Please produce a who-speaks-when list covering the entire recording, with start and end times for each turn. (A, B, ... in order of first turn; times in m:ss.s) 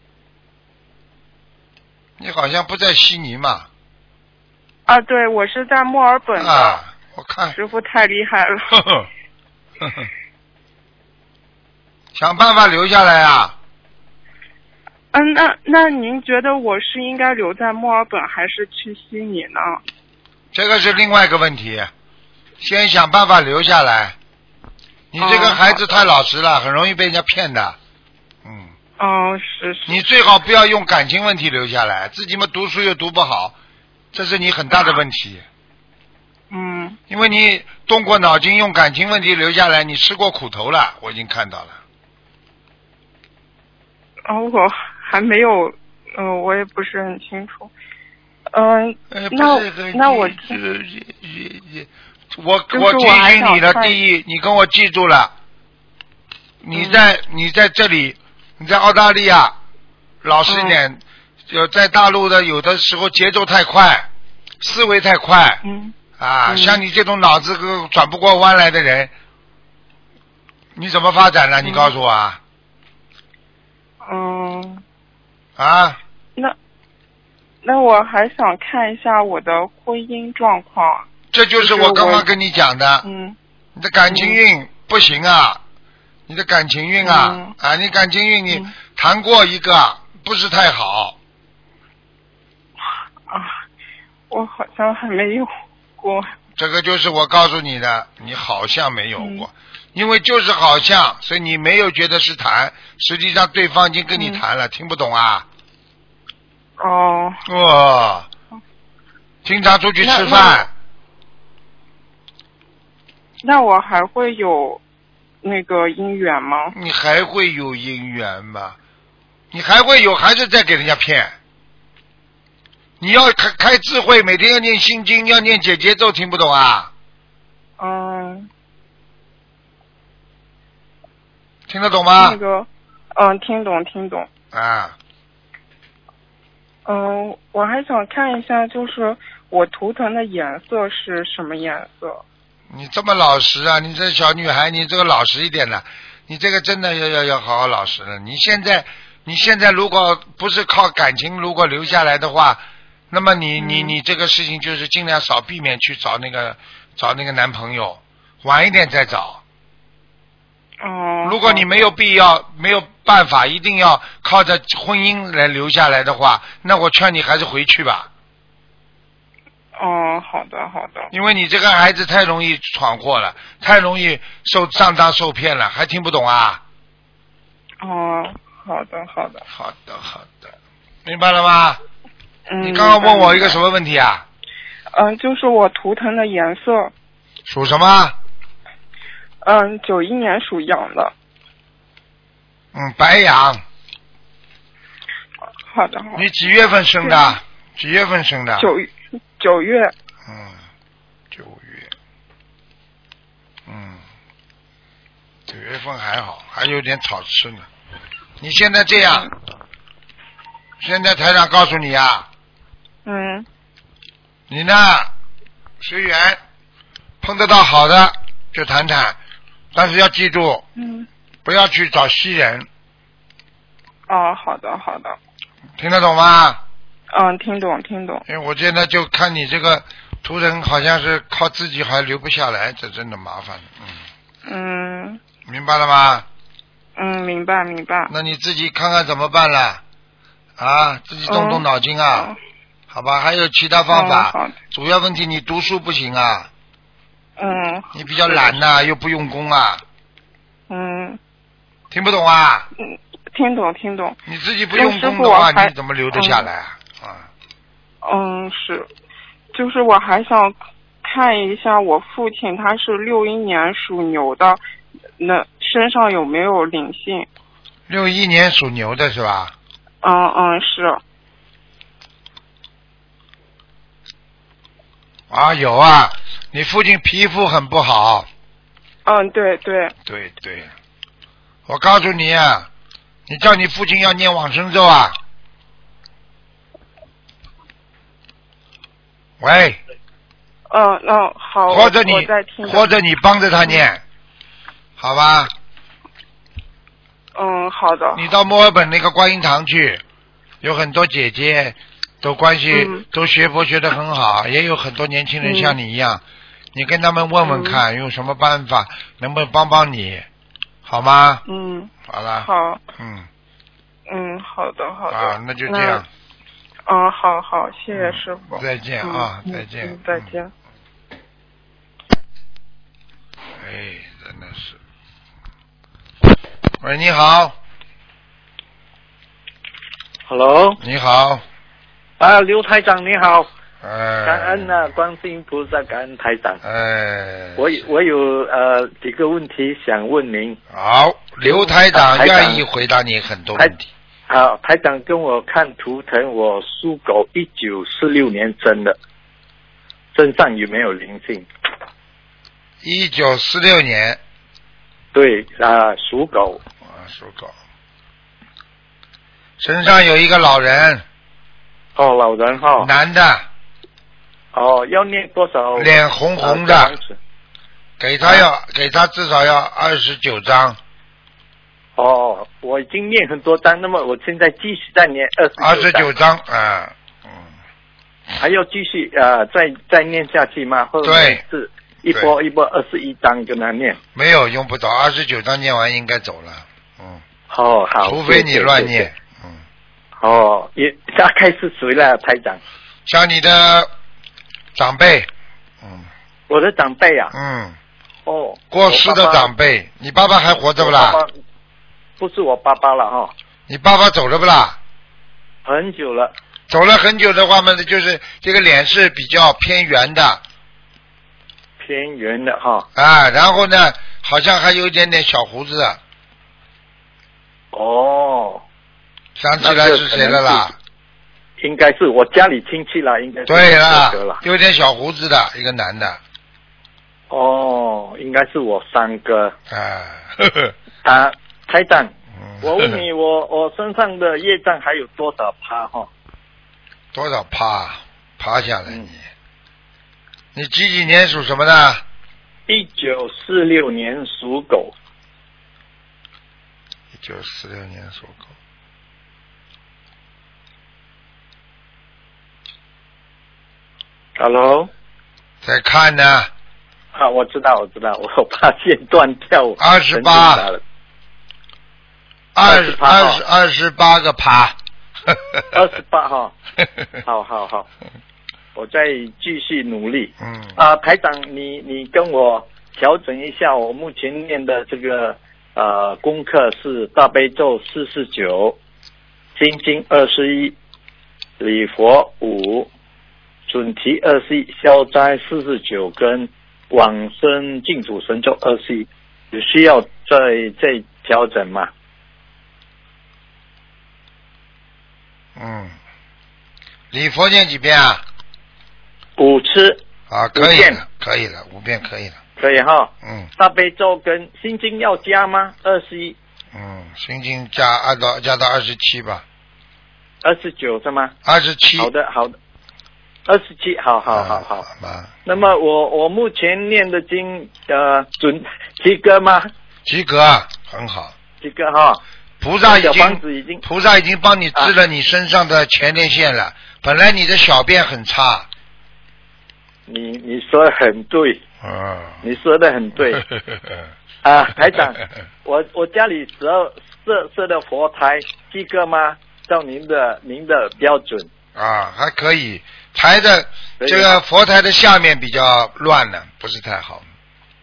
0:02.2-0:03.7 A
0:04.9-0:06.8 B
0:06.4-0:07.6 A
0:07.5-0:08.7 B
0:08.7-0:09.1 A
0:09.8-0:10.1 A
0:12.1-0:13.5 A
0:15.1-0:19.8 B
0:20.5-0:21.9 A
0:22.6-0:24.2 A
0:25.1-0:27.8 A
0:25.2-0:25.8 B
0:28.4-0:28.7 A
0:29.0-0:30.0 B
0:29.9-0:33.6 A
0:34.1-0:35.4 A
0:36.5-0:37.0 B
0:37.1-0:41.8 A
0:44.3-0:47.7 B
0:48.5-0:50.5 B
0:49.1-0:55.3 A
0:52.7-0:54.0 B
0:56.6-0:59.6 A
0:56.7-0:57.0 B
1:00.2-1:04.1 A
1:00.5-1:00.8 B
1:04.6-1:05.6 A
1:05.6-1:05.9 B
1:06.2-1:09.1 A
1:06.4-1:06.8 B
1:10.8-1:12.4 A
1:11.6-1:11.9 B
1:14.0-1:14.8 B
1:15.6-1:16.0 A
1:17.6-1:21.1 B
1:21.3-1:23.0 A
1:21.6-1:22.2 B
1:23.0-1:23.4 B
1:23.7-1:25.6 A
1:24.1-1:24.4 B
1:26.3-1:31.2 A
1:27.0-1:27.5 B
1:34.3-1:36.3 B
1:36.6-1:45.4 A
1:39.2-1:39.5 B
1:44.1-1:44.4 B
1:46.8-1:47.4 B
1:47.4-1:48.3 A
1:49.4-1:50.7 A
1:50.0-1:50.6 B
1:53.4-1:54.8 B
1:55.4-1:56.7 B
1:56.7-1:58.8 A
1:59.5-2:01.3 A
2:03.0-2:06.9 A
2:07.8-2:08.5 B
2:11.7-2:12.4 A
2:12.2-2:14.3 B
2:14.5-2:15.0 A
2:16.8-2:22.2 B
2:22.7-2:39.4 A
2:33.6-2:34.0 B
2:40.8-2:41.6 B
2:41.2-2:48.1 A
2:49.8-2:51.1 B
2:51.1-2:56.6 A
2:57.8-2:59.4 B
2:59.5-3:00.5 A
3:01.0-3:01.8 A
3:02.5-3:03.6 B
3:02.6-3:04.2 A
3:04.9-3:06.9 B
3:07.5-3:08.2 A
3:09.4-3:11.1 B
3:12.7-3:13.6 A
3:15.7-3:16.2 B
3:16.1-3:18.7 A
3:17.0-3:17.4 B
3:18.6-3:19.9 B
3:20.2-3:20.6 A
3:21.3-3:21.9 A
3:23.6-3:24.0 A
3:25.5-3:27.7 A
3:28.4-3:29.3 A
3:29.0-3:29.3 B
3:30.8-3:32.3 A
3:33.0-3:33.4 B
3:34.5-3:35.1 A
3:35.8-3:36.4 A
3:37.2-3:39.2 A
3:39.7-3:40.6 A
3:40.8-3:41.1 B
3:41.4-3:42.7 A
3:44.1-3:45.2 B
3:45.8-3:46.6 A
3:47.1-3:48.2 B
3:48.3-3:54.0 A
3:54.4-3:55.2 B
3:55.4-3:56.2 A
3:57.0-3:58.1 B
3:58.1-3:59.8 A
4:00.6-4:02.3 A
4:01.3-4:02.4 B
4:02.9-4:06.5 A
4:03.9-4:04.6 B
4:07.4-4:08.6 B
4:07.9-4:09.8 A
4:10.7-4:11.2 B
4:11.9-4:12.7 A
4:12.8-4:14.2 B
4:14.2-4:17.3 A
4:14.7-4:16.5 B
4:18.0-4:18.9 B
4:19.5-4:24.6 B
4:25.2-4:27.3 B
4:27.9-4:29.5 A
4:30.0-4:31.0 B
4:35.3-4:38.3 A
4:39.0-4:39.9 B
4:40.0-4:40.7 A
4:41.6-4:42.7 A
4:43.3-4:45.2 A
4:49.4-4:49.8 A
4:50.7-4:52.9 B
4:51.7-4:54.0 A
4:55.0-4:55.5 A
4:57.4-4:58.2 B
4:58.1-5:00.0 A
5:00.6-5:06.2 A
5:02.7-5:03.0 B
5:05.4-5:05.8 B
5:06.7-5:10.3 A
5:07.4-5:07.8 B
5:10.8-5:11.4 A
5:11.5-5:12.8 B
5:12.0-5:13.3 A
5:14.1-5:16.0 B
5:15.1-5:16.0 A
5:16.9-5:20.5 B
5:17.9-5:20.4 A
5:23.6-5:24.8 A
5:26.8-5:27.6 A
5:30.3-5:30.8 C
5:30.8-5:31.4 A
5:32.2-5:33.5 C
5:33.8-5:34.8 A
5:34.2-5:36.6 C
5:36.6-5:37.7 A
5:37.6-5:40.6 C
5:40.7-5:43.9 A
5:41.4-5:42.6 C
5:44.3-5:49.0 C
5:50.1-5:51.5 C
5:52.8-5:54.2 A
5:55.1-5:56.6 C
5:56.8-5:57.5 A
5:59.6-6:01.0 A
6:02.0-6:02.9 C
6:02.8-6:03.4 A
6:04.5-6:07.2 C
6:05.8-6:06.9 A
6:08.0-6:10.8 A
6:12.0-6:16.1 C
6:15.6-6:17.5 A
6:18.4-6:24.0 C
6:21.0-6:21.4 A
6:24.1-6:27.2 A
6:27.5-6:29.1 C
6:28.0-6:29.6 A
6:30.2-6:32.6 C
6:33.0-6:33.9 A
6:34.7-6:35.3 A
6:35.8-6:36.1 A
6:36.5-6:37.3 C
6:37.3-6:37.8 A
6:38.2-6:39.5 C
6:38.7-6:41.2 A
6:40.8-6:41.3 C
6:42.2-6:43.3 C
6:43.7-6:44.8 A
6:45.6-6:46.3 C
6:46.7-6:50.4 A
6:51.8-6:52.9 C
6:52.9-6:56.0 A
6:57.7-6:58.6 C
6:59.4-7:00.7 A
6:59.6-7:00.7 C
7:01.6-7:04.4 C
7:03.5-7:06.2 A
7:07.3-7:09.5 C
7:09.7-7:10.7 A
7:11.0-7:16.1 C
7:12.4-7:13.0 A
7:17.1-7:19.2 A
7:20.5-7:22.0 A
7:22.7-7:24.9 C
7:27.1-7:28.5 A
7:34.4-7:34.9 C
7:35.6-7:36.5 A
7:37.1-7:40.8 C
7:39.8-7:40.7 A
7:42.5-7:44.8 A
7:42.6-7:43.4 C
7:45.3-7:45.6 A
7:45.7-7:46.5 C
7:47.2-7:47.9 C
7:48.7-7:58.8 C
7:50.4-7:50.8 A
7:59.6-8:00.8 C
8:01.6-8:02.9 C
8:03.7-8:11.9 C
8:15.6-8:15.9 A
8:17.1-8:18.2 A
8:19.4-8:20.0 C
8:20.3-8:22.4 A
8:20.6-8:21.0 C
8:22.6-8:26.4 C
8:23.2-8:23.5 A
8:26.7-8:29.4 A
8:30.4-8:31.3 C
8:31.4-8:32.1 A
8:32.0-8:32.5 C
8:33.4-8:34.8 C
8:34.3-8:35.4 A
8:35.4-8:39.7 C
8:40.0-8:41.3 A
8:41.6-8:42.2 C
8:42.6-8:48.7 A
8:42.8-8:43.8 C
8:50.1-8:51.6 C
8:51.8-8:52.4 A
8:52.4-8:53.4 C
8:54.4-9:01.5 C
9:01.7-9:07.2 A
9:04.0-9:04.4 C